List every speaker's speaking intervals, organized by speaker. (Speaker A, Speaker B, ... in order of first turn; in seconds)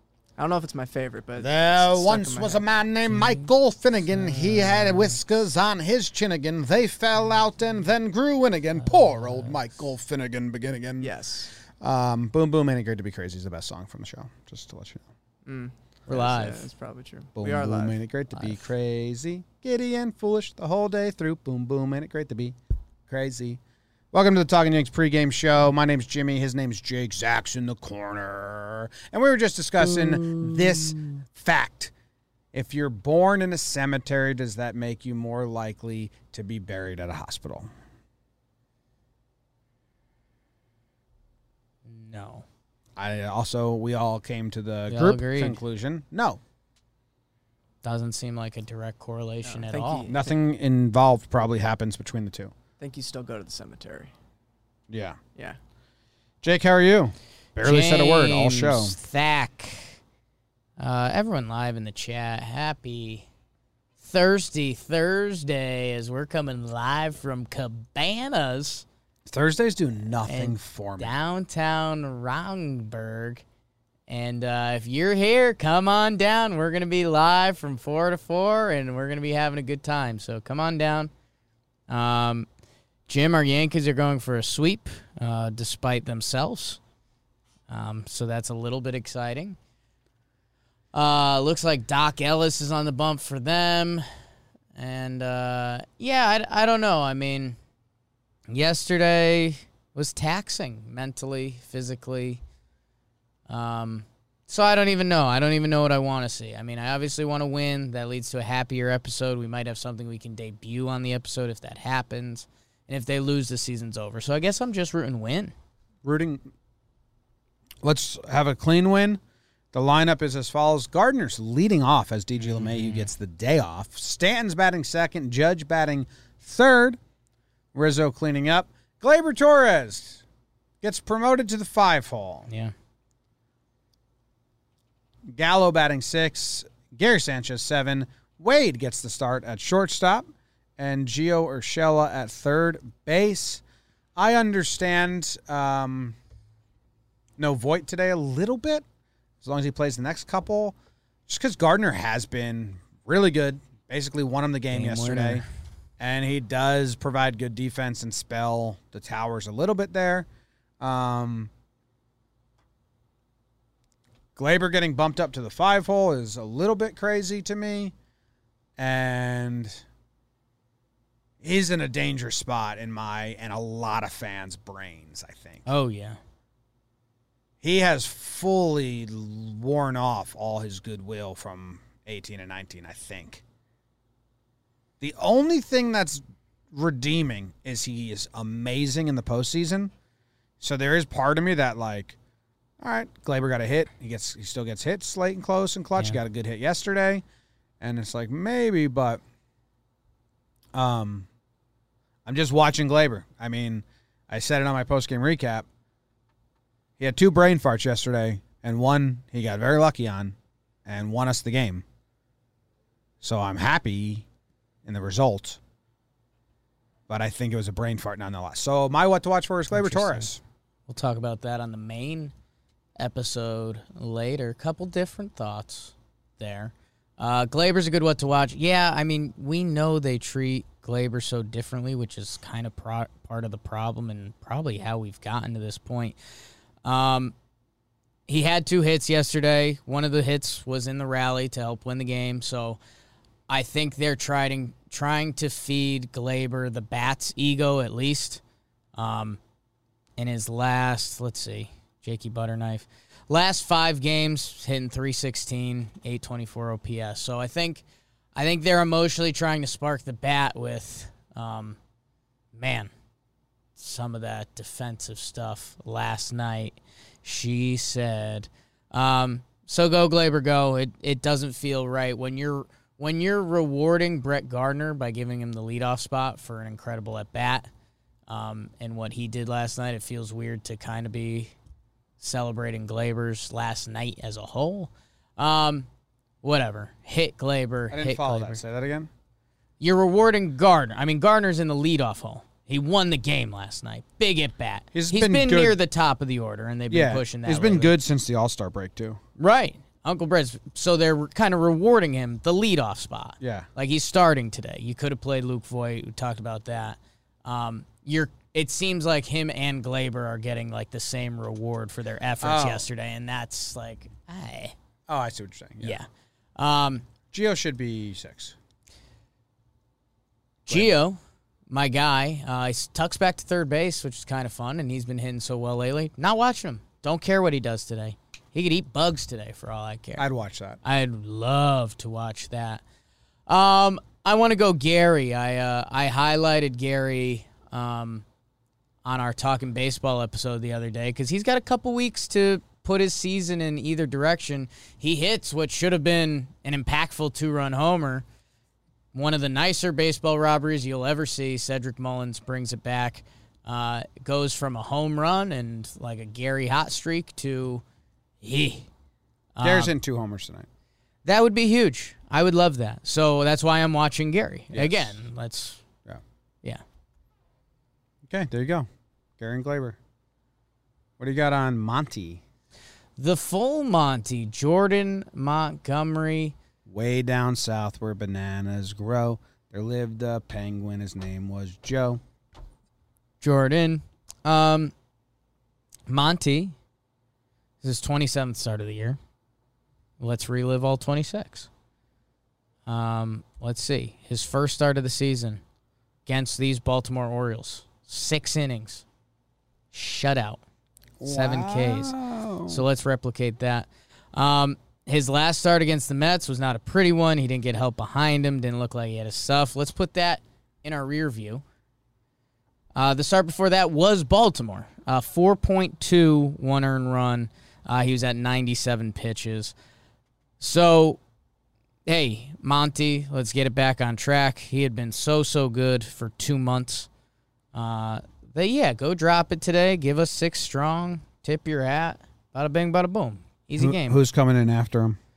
Speaker A: 0.4-2.7, 11.0-11.5, 15.4-18.0, 49.4-50.4, 52.8-54.1
Speaker B: 1.4-15.0, 17.4-22.6, 23.1-23.6, 24.1-31.9, 32.5-37.7, 43.0-46.4, 50.1-52.5, 54.9-55.2, 56.4-59.0, 69.2-71.1, 116.0-116.5, 117.8-119.2, 119.7-127.0, 127.7-130.2, 130.8-132.5, 135.3-140.3, 140.8-143.6, 144.2-146.2, 147.4-148.8, 149.4-150.8, 151.3-155.4, 156.0-160.3, 160.8-161.5, 164.3-167.9, 168.8-169.8, 171.4-175.7, 177.6-183.4, 185.0-189.9, 190.6-192.2, 192.8-197.2, 197.8-199.2, 200.7-201.3, 202.2-205.7, 207.0-211.8, 213.2-214.3, 214.8-215.6, 217.1-220.4, 287.9-289.1, 294.9-295.8, 296.9-299.2, 303.4-303.7, 312.4-312.9, 315.1-316.0, 317.3-318.6, 320.6-320.9, 330.2-330.8, 359.6-360.7, 364.7-365.2, 368.3-368.9, 369.4-370.0, 371.2-372.4, 376.8-382.2, 401.2-402.9, 433.8-435.2
Speaker C: 3.0-3.5, 4.0-5.2, 8.8-9.9, 16.1-16.7, 18.3-18.8, 29.8-31.2, 41.9-42.4, 44.9-45.6, 47.8-50.1, 57.6-60.0, 60.8-63.3, 64.0-68.8, 70.2-73.4, 74.1-81.1, 81.9-82.5, 83.1-86.8, 87.7-89.6, 90.9-94.0, 94.7-97.6, 98.5-102.4, 103.5-115.5, 122.4-123.1, 132.5-132.7, 154.7-155.5, 175.7-176.2, 195.9-196.2, 219.7-220.3, 220.9-222.3, 223.0-236.2, 236.8-237.3, 238.3-242.8, 243.5-248.4, 248.9-249.4, 250.2-257.8, 258.4-261.8, 262.5-262.9, 263.8-277.7, 278.3-281.5, 282.2-285.9, 286.4-288.6, 289.8-298.0, 299.4-314.7, 315.8-317.1, 320.7-330.2, 330.8-332.8, 333.5-338.2, 339.0-348.2, 349.1-357.8, 358.4-358.9, 359.5-359.9, 361.2-365.8, 373.2-376.5, 383.4-384.9, 386.1-386.7, 387.8-389.2, 390.2-391.7, 392.9-395.6, 396.2-399.0, 399.9-400.6, 401.2-402.2, 402.7-411.6, 412.9-419.7, 420.6-421.2, 422.1-427.1, 427.7-434.2